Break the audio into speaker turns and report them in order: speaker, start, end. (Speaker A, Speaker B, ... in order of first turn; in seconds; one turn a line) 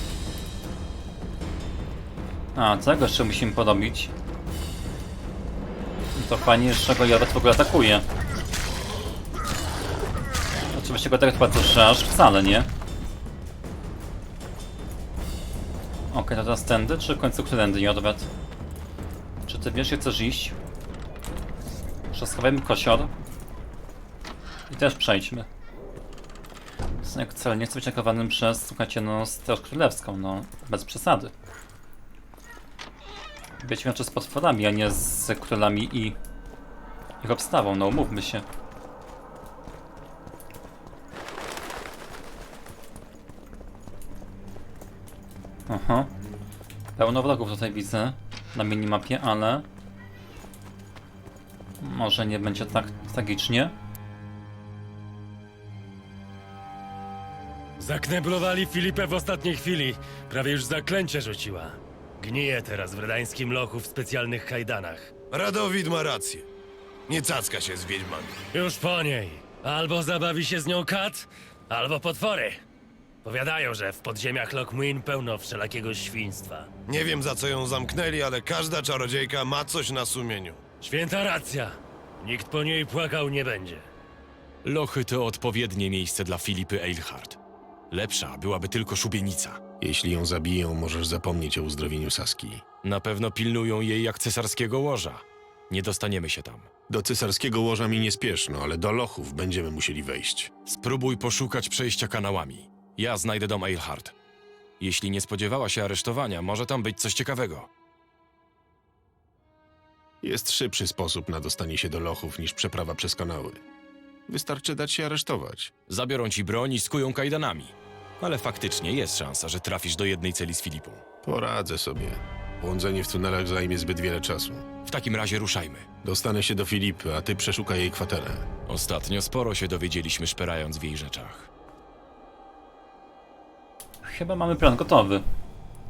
Speaker A: 2.5-4.1
Speaker A: 6.1-8.1
Speaker A: 10.7-12.7
Speaker A: 16.1-18.3
Speaker A: 19.5-20.6
Speaker A: 22.1-23.1
Speaker A: 24.7-25.5
Speaker A: 27.0-31.3
Speaker A: 33.6-36.2
Speaker A: 37.2-38.4
Speaker A: 45.7-46.1
Speaker A: 47.0-49.6
Speaker A: 51.8-53.7
Speaker B: 57.8-65.1
Speaker C: 65.3-66.5
Speaker C: 67.1-68.4
Speaker B: 68.5-72.6
Speaker B: 73.2-76.7
Speaker C: 76.9-80.6
Speaker B: 80.8-83.8
Speaker D: 84.6-87.4
Speaker D: 87.9-89.6
Speaker E: 89.8-92.6
Speaker D: 92.8-96.7
Speaker E: 96.9-100.5
Speaker D: 100.7-104.1
Speaker D: 104.8-107.7
Speaker E: 110.2-113.6
Speaker E: 114.3-115.7
Speaker D: 115.9-121.0
Speaker E: 121.2-124.6
Speaker D: 124.8-125.8
Speaker E: 126.0-128.5
Speaker D: 128.7-131.5
Speaker A: 134.0-135.2